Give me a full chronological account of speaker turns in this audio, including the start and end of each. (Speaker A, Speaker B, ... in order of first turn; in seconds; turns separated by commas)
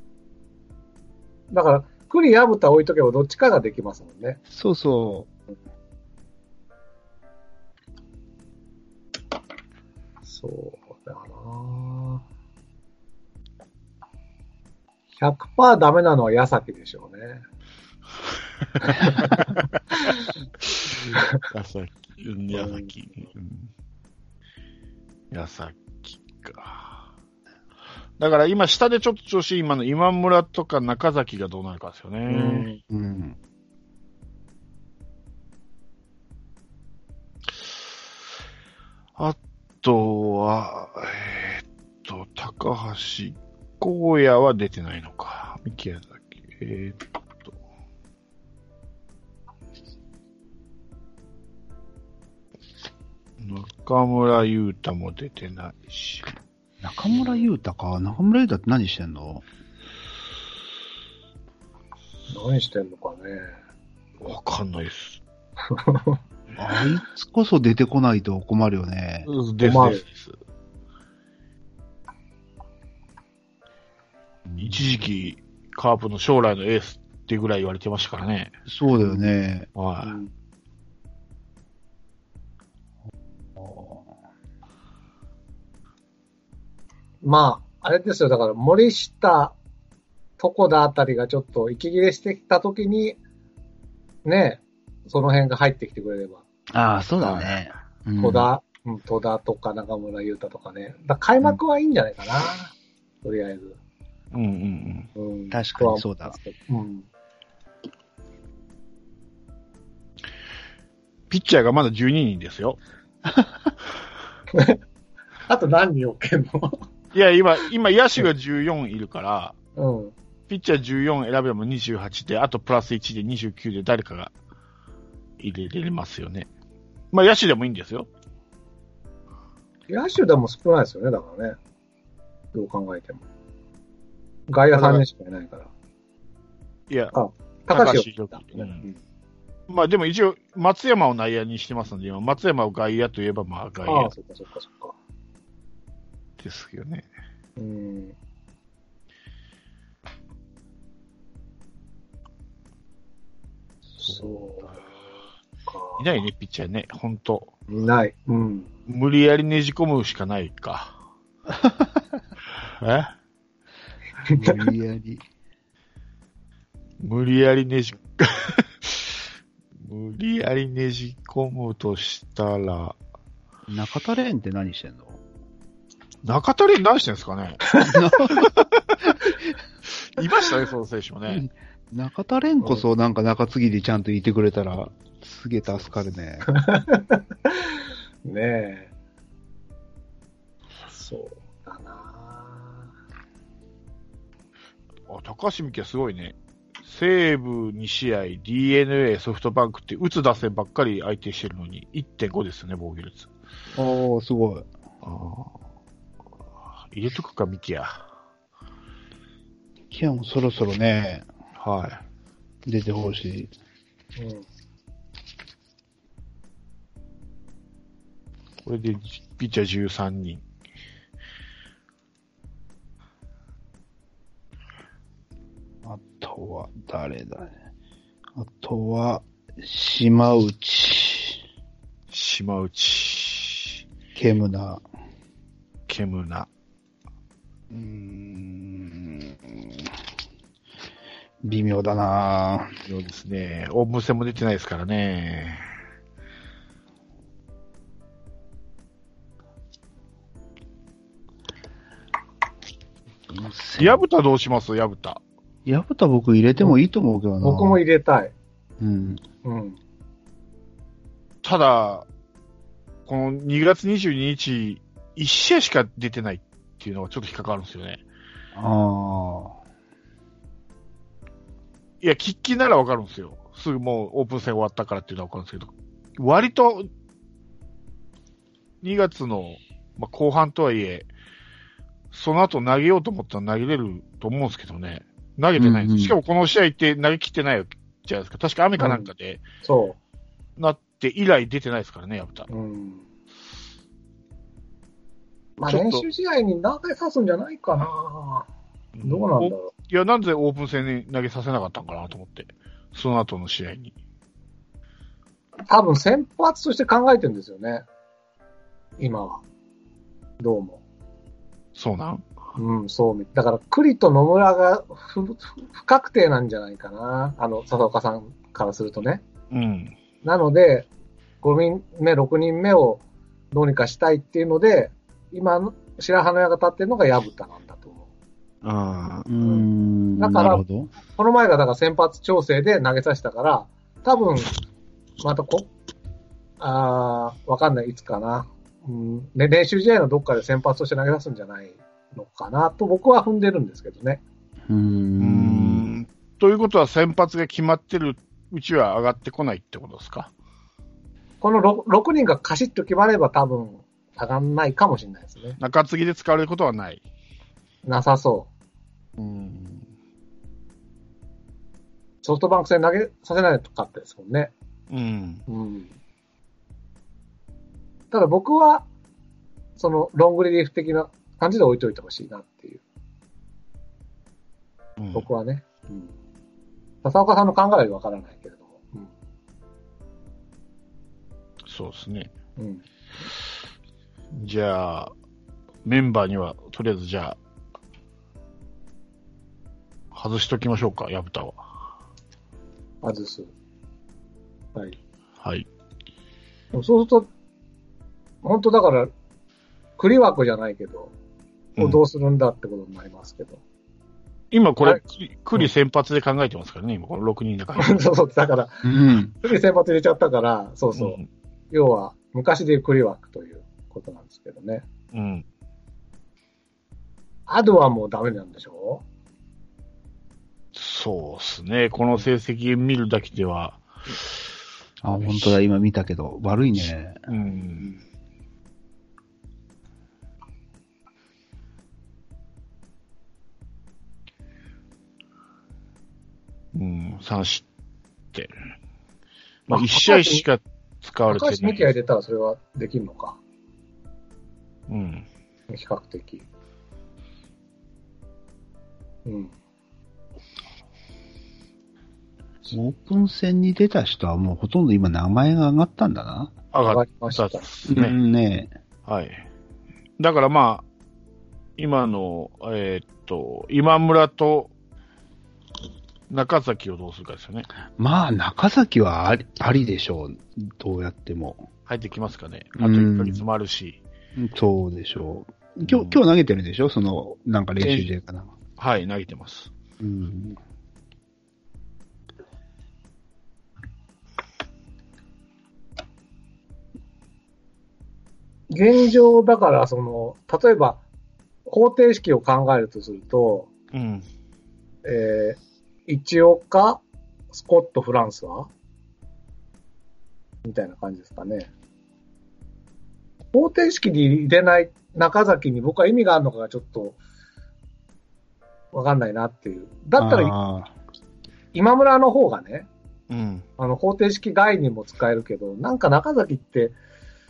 Speaker A: 1.5-4.4, Speaker B: 4.5-5.3, Speaker A: 10.2-12.2, Speaker A: 15.2-17.4, Speaker A: 18.8-20.3, Speaker C: 20.9-23.7, Speaker A: 20.9-21.4, Speaker A: 22.5-22.9, Speaker C: 25.3-27.0, Speaker C: 28.2-32.6, Speaker A: 32.3-32.8, Speaker B: 32.9-33.4, Speaker C: 39.2-47.5, Speaker C: 53.4-56.3, Speaker B: 56.8-59.4, Speaker A: 62.3-63.5, Speaker C: 64.2-65.2, Speaker A: 65.7-66.2, Speaker B: 66.6-69.3, Speaker C: 69.2-70.4, Speaker A: 69.6-70.0, Speaker B: 74.5-74.9, Speaker C: 74.6-78.5, Speaker B: 78.7-79.7, Speaker C: 79.8-80.2, Speaker A: 80.0-80.3, Speaker B: 83.6-84.1, Speaker A: 87.2-89.5, Speaker A: 90.4-93.2, Speaker A: 94.2-96.4, Speaker B: 96.7-98.5, Speaker C: 97.2-97.6, Speaker A: 98.2-103.8, Speaker C: 104.3-105.1, Speaker A: 105.2-107.1, Speaker B: 105.5-106.3, Speaker C: 111.3-112.8, Speaker B: 113.2-113.7, Speaker A: 114.5-114.8, Speaker A: 115.5-116.8, Speaker C: 117.1-119.5, Speaker A: 119.8-120.1, Speaker C: 120.5-124.3, Speaker C: 125.4-126.5, Speaker C: 127.1-128.1, Speaker A: 129.9-131.6, Speaker A: 132.5-133.2, Speaker A: 134.5-135.7, Speaker C: 134.7-135.0, Speaker C: 136.9-137.1, Speaker A: 137.1-139.0, Speaker C: 137.7-138.8, Speaker C: 139.7-144.1, Speaker A: 143.8-144.9, Speaker C: 146.4-147.1, Speaker A: 147.6-148.2, Speaker A: 154.0-154.7, Speaker C: 154.1-154.3, Speaker A: 155.7-156.0, Speaker C: 156.0-157.5, Speaker A: 157.7-158.7, Speaker C: 158.9-160.9, Speaker B: 161.5-162.0, Speaker C: 162.8-163.1, Speaker A: 164.3-164.6, Speaker B: 164.3-165.2, Speaker C: 167.0-169.1, Speaker C: 169.8-172.9, Speaker B: 173.7-175.2, Speaker C: 176.2-177.6, Speaker A: 177.7-178.0, Speaker B: 177.8-178.5, Speaker C: 178.3-178.8, Speaker C: 180.0-181.4, Speaker B: 181.3-186.5, Speaker A: 182.6-182.9, Speaker C: 185.7-185.9, Speaker A: 186.5-187.7, Speaker A: 188.2-188.9, Speaker A: 190.9-192.9, Speaker C: 195.1-203.3, Speaker B: 203.8-204.7, Speaker C: 205.0-205.5, Speaker C: 206.9-208.0, Speaker B: 209.9-211.2, Speaker C: 211.6-212.0, Speaker B: 212.7-213.5, Speaker A: 214.2-214.4, Speaker C: 218.6-220.4, Speaker B: 225.8-227.5, Speaker B: 228.3-231.4, Speaker C: 232.1-233.8, Speaker B: 234.1-234.8, Speaker C: 235.9-236.5, Speaker B: 237.7-239.9, Speaker B: 241.4-242.7, Speaker C: 242.9-245.6, Speaker B: 253.3-254.0, Speaker C: 253.8-255.2, Speaker B: 255.7-257.8, Speaker A: 257.4-258.3, Speaker B: 258.8-259.2, Speaker A: 259.4-259.8, Speaker C: 261.4-262.1, Speaker C: 263.1-268.0, Speaker B: 268.5-269.6, Speaker C: 272.0-276.9, Speaker C: 278.8-281.1, Speaker C: 282.1-289.4, Speaker B: 285.6-286.1, Speaker A: 288.8-289.1, Speaker A: 289.6-290.0, Speaker C: 290.6-292.5, Speaker A: 292.5-293.1, Speaker A: 295.6-298.5, Speaker C: 295.7-296.0, Speaker C: 298.9-303.9, Speaker A: 299.0-299.7, Speaker A: 305.7-307.8, Speaker A: 309.0-309.4, Speaker A: 310.4-310.8, Speaker C: 311.7-312.2, Speaker A: 312.6-319.2, Speaker C: 319.5-319.9, Speaker A: 320.2-320.9, Speaker A: 321.4-323.0, Speaker A: 323.5-328.1, Speaker C: 328.6-329.3, Speaker B: 329.2-330.9, Speaker A: 329.4-329.6, Speaker A: 330.2-334.5, Speaker A: 335.2-335.7, Speaker A: 336.6-344.2, Speaker B: 344.7-345.9, Speaker C: 345.2-350.3, Speaker A: 351.4-355.6, Speaker C: 355.6-357.0, Speaker A: 357.8-358.5, Speaker C: 359.2-359.8, Speaker A: 362.2-364.5, Speaker C: 364.9-365.4, Speaker A: 365.5-365.9, Speaker A: 368.1-368.9, Speaker A: 369.8-372.8, Speaker C: 375.0-375.3, Speaker A: 375.1-376.1, Speaker A: 377.0-379.1, Speaker C: 381.7-382.3, Speaker A: 382.6-382.8, Speaker C: 384.3-385.1, Speaker C: 385.8-387.4, Speaker C: 390.1-391.6, Speaker A: 393.0-393.5, Speaker C: 395.4-395.6, Speaker A: 396.7-397.3, Speaker A: 398.4-399.1, Speaker A: 400.0-401.1, Speaker A: 401.8-403.6, Speaker C: 404.5-408.0, Speaker A: 407.8-408.8, Speaker B: 408.8-409.3, Speaker A: 409.4-411.2, Speaker C: 410.9-411.2, Speaker A: 411.7-414.8, Speaker C: 415.1-415.4, Speaker A: 417.5-419.0, Speaker C: 420.7-424.4, Speaker B: 425.0-427.2, Speaker C: 425.2-425.6, Speaker C: 427.3-428.0, Speaker C: 436.7-437.6, Speaker C: 439.7-441.9, Speaker A: 439.7-440.4, Speaker A: 441.3-443.4, Speaker C: 444.9-445.2, Speaker A: 445.7-446.4, Speaker A: 449.2-449.5, Speaker B: 452.7-456.5, Speaker C: 456.7-458.1, Speaker A: 456.9-457.7, Speaker B: 457.9-458.7, Speaker C: 459.1-459.4, Speaker C: 460.2-460.8, Speaker C: 461.8-464.7, Speaker C: 466.3-467.7, Speaker B: 468.0-471.6, Speaker C: 471.9-474.0, Speaker B: 472.8-473.4, Speaker B: 474.4-478.5, Speaker C: 475.8-476.2, Speaker C: 477.8-478.1, Speaker C: 478.8-479.7, Speaker B: 480.0-480.6, Speaker A: 488.7-491.0, Speaker A: 491.6-493.7, Speaker C: 493.9-494.2, Speaker A: 495.0-498.7, Speaker A: 500.6-501.7, Speaker A: 503.5-507.2, Speaker A: 508.9-510.5, Speaker B: 510.2-510.9, Speaker A: 511.7-512.9, Speaker C: 513.3-513.6, Speaker A: 513.8-517.0